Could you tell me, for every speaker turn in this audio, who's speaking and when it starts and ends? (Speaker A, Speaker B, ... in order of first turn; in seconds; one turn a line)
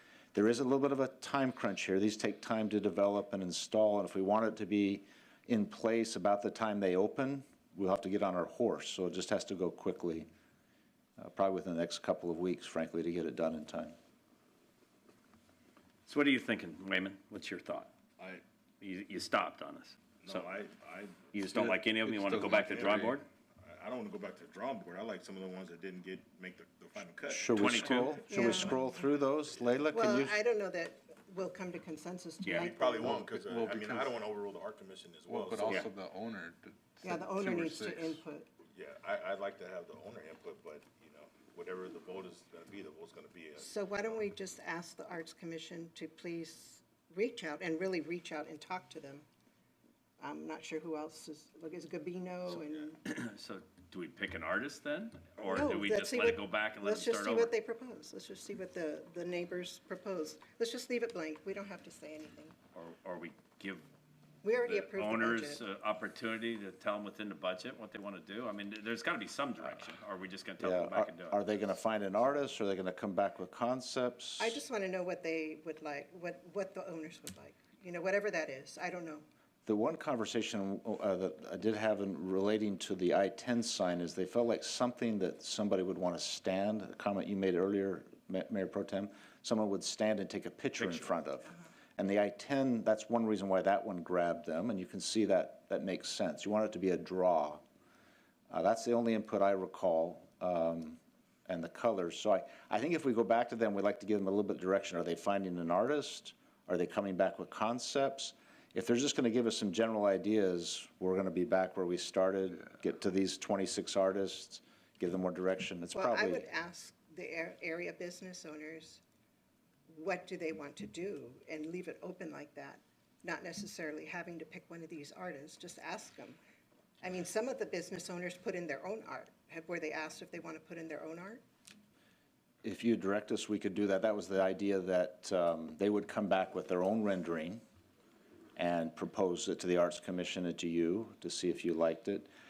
Speaker A: 0.3-10.3
Speaker A: 11.2-14.0
Speaker B: 16.1-17.9
Speaker C: 18.2-18.4
Speaker B: 18.8-20.5
Speaker C: 20.2-21.4
Speaker B: 21.3-23.3
Speaker D: 21.4-23.2
Speaker C: 22.5-27.6
Speaker A: 27.3-30.4
Speaker B: 27.6-28.2
Speaker E: 28.3-28.8
Speaker E: 29.9-33.1
Speaker B: 32.4-32.7
Speaker C: 32.5-35.9
Speaker D: 33.0-34.2
Speaker D: 35.3-38.2
Speaker E: 37.0-38.5
Speaker C: 38.7-44.2
Speaker E: 43.6-49.3
Speaker E: 50.2-53.0
Speaker C: 52.6-52.9
Speaker B: 53.0-57.5
Speaker E: 55.5-62.5
Speaker B: 62.8-63.9
Speaker E: 64.4-65.6
Speaker B: 64.6-71.4
Speaker A: 70.6-74.6
Speaker E: 74.4-79.2
Speaker A: 79.7-97.6
Speaker B: 90.8-91.1
Speaker A: 98.5-116.5
Speaker E: 115.9-119.0
Speaker E: 119.9-126.4
Speaker E: 127.0-131.4
Speaker A: 132.6-137.6
Speaker A: 138.6-142.3